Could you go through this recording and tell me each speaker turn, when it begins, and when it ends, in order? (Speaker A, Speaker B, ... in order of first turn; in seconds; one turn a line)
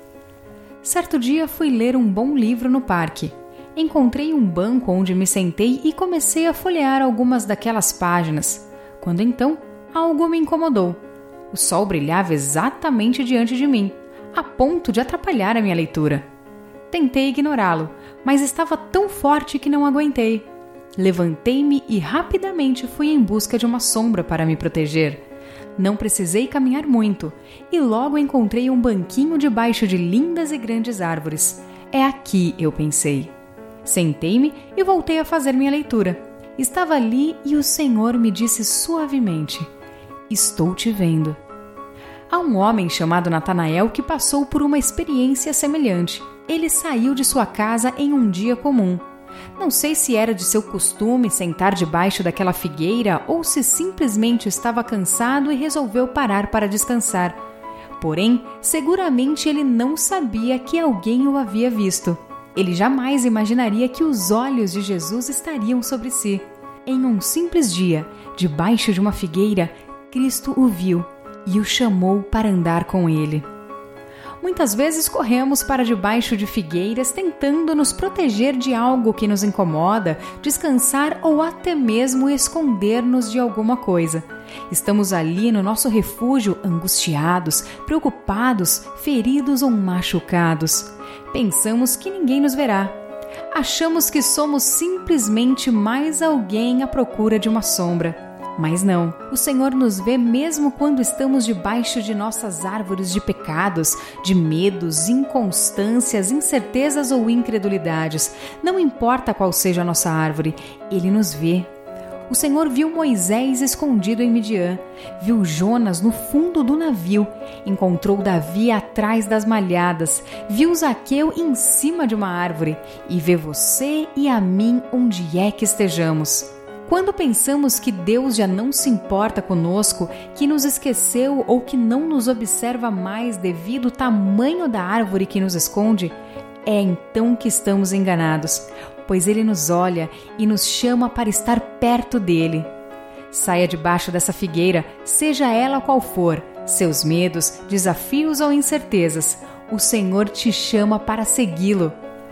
Speaker A: 0.8-11.0
Speaker A: 11.5-16.2
Speaker A: 16.9-25.2
Speaker A: 25.8-33.3
Speaker A: 33.8-39.7
Speaker A: 40.3-41.4
Speaker A: 42.3-49.0
Speaker A: 49.5-57.4
Speaker A: 58.0-73.5
Speaker A: 74.4-92.9
Speaker A: 93.5-111.7
Speaker A: 112.3-142.7
Speaker A: 143.3-151.9